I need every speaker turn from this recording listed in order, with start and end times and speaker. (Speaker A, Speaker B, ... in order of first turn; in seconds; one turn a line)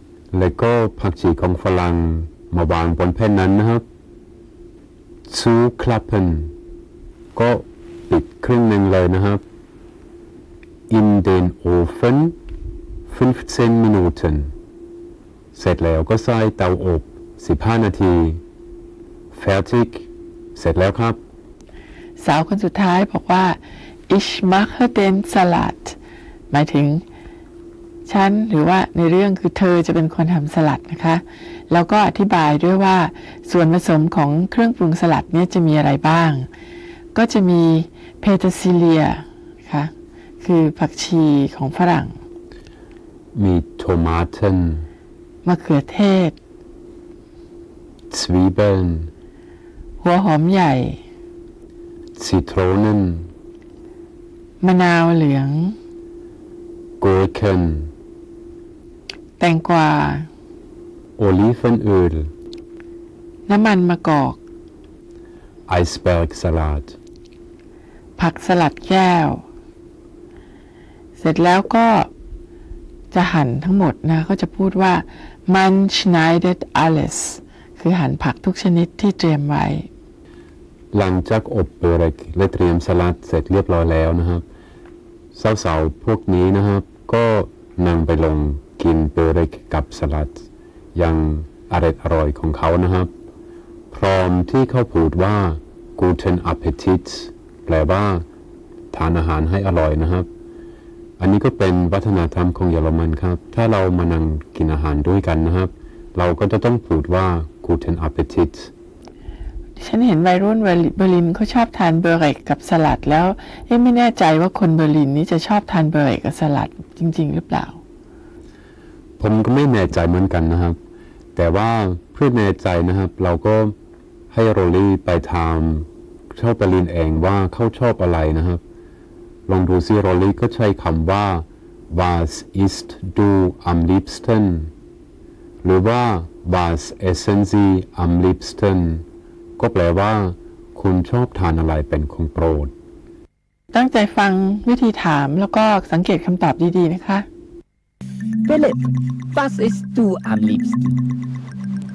Speaker A: 0.3-3.9
Speaker A: 5.3-6.5
Speaker A: 7.3-9.4
Speaker A: 10.9-12.4
Speaker A: 13.1-14.5
Speaker A: 15.5-18.4
Speaker A: 19.3-21.2
Speaker B: 22.2-23.6
Speaker B: 24.1-26.0
Speaker B: 26.5-27.0
Speaker B: 28.1-36.5
Speaker B: 37.1-42.1
Speaker A: 43.3-44.9
Speaker B: 45.4-46.4
Speaker A: 48.1-49.1
Speaker B: 50.0-51.0
Speaker A: 52.1-53.3
Speaker B: 54.6-55.8
Speaker A: 57.0-57.9
Speaker B: 59.4-60.3
Speaker A: 61.2-62.3
Speaker B: 63.5-64.4
Speaker A: 65.7-67.0
Speaker B: 68.2-69.4
Speaker B: 71.2-72.1
Speaker B: 73.1-79.9
Speaker A: 80.9-84.5
Speaker A: 85.3-93.1
Speaker A: 93.9-98.2
Speaker A: 98.9-100.3
Speaker A: 101.2-108.7
Speaker B: 109.8-117.8
Speaker A: 119.2-120.8
Speaker A: 121.3-123.7
Speaker A: 124.3-128.6
Speaker A: 129.5-134.7
Speaker A: 135.6-139.0
Speaker A: 139.6-142.7
Speaker B: 143.7-147.3
Speaker C: 148.4-151.0